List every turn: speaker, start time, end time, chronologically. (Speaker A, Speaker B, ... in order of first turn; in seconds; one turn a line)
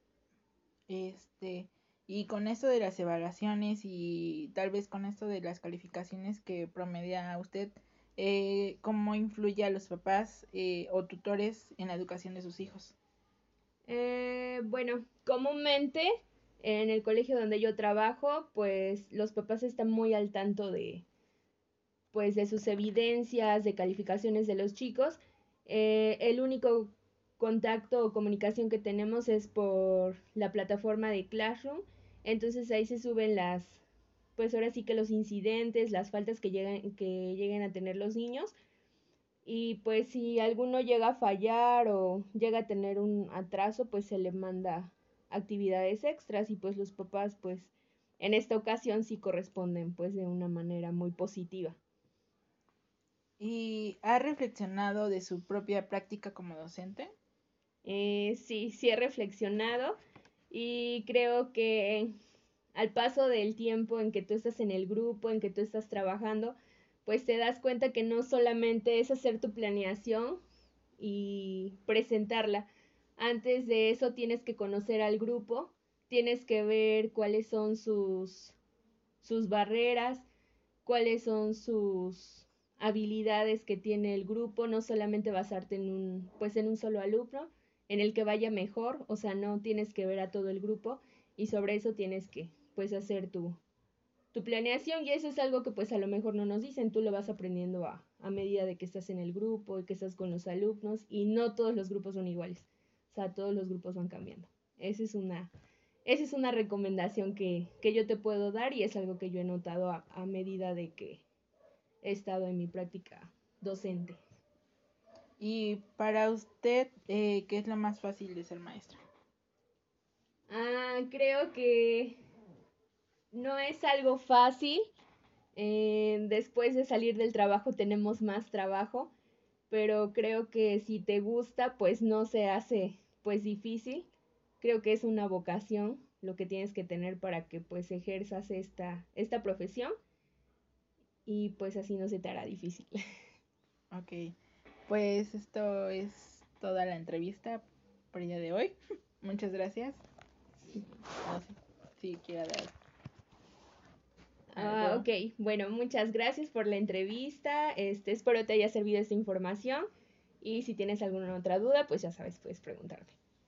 Speaker A: 0.9-12.9
Speaker B: 13.9-16.1
Speaker B: 16.6-21.0
Speaker B: 22.1-33.8
Speaker B: 34.4-38.5
Speaker B: 39.4-51.8
Speaker A: 53.4-57.1
Speaker B: 57.8-60.0
Speaker B: 60.5-62.1
Speaker B: 62.7-66.5
Speaker B: 67.0-70.4
Speaker B: 71.0-78.6
Speaker B: 79.2-80.2
Speaker B: 80.8-93.6
Speaker B: 94.3-105.5
Speaker B: 106.0-111.2
Speaker B: 112.0-114.2
Speaker A: 115.4-119.0
Speaker B: 120.5-122.2
Speaker B: 123.3-124.8
Speaker B: 125.5-129.1
Speaker B: 129.7-134.1
Speaker B: 134.6-139.9
Speaker B: 141.2-143.0
Speaker A: 143.9-144.3
Speaker A: 144.9-150.0
Speaker A: 151.2-152.7
Speaker B: 154.5-159.8
Speaker A: 154.6-155.1
Speaker B: 160.4-163.1